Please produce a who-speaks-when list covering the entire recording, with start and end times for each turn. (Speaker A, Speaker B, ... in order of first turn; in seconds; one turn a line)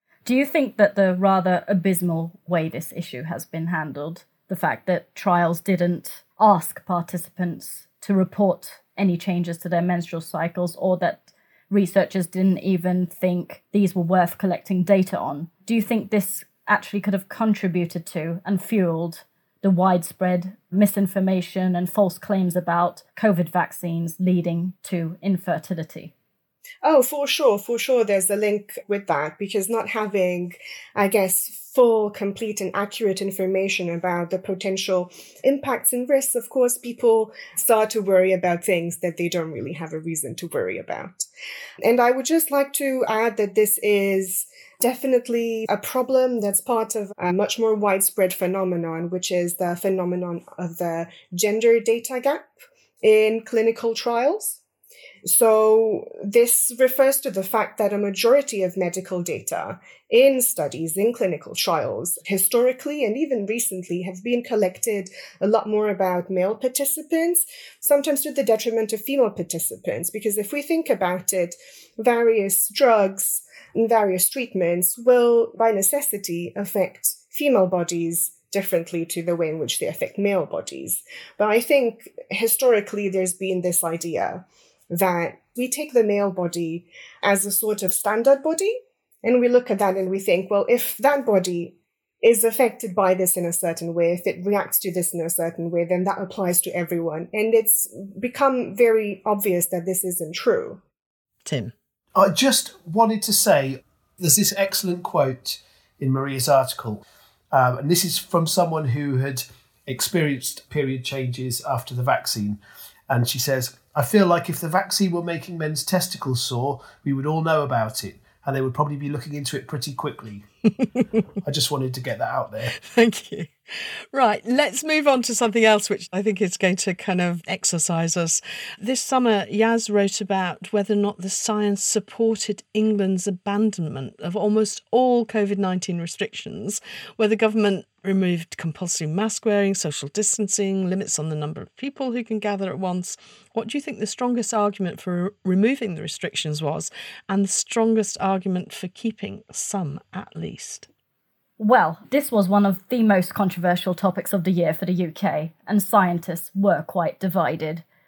Speaker A: 0.2-26.1
Speaker B: 26.8-41.3
Speaker B: 41.8-54.6
Speaker B: 55.2-100.8
Speaker C: 101.5-101.7
Speaker D: 102.2-120.5
Speaker C: 120.8-121.0
Speaker D: 121.5-122.7
Speaker C: 122.7-123.5
Speaker C: 124.1-150.9
Speaker A: 151.6-157.8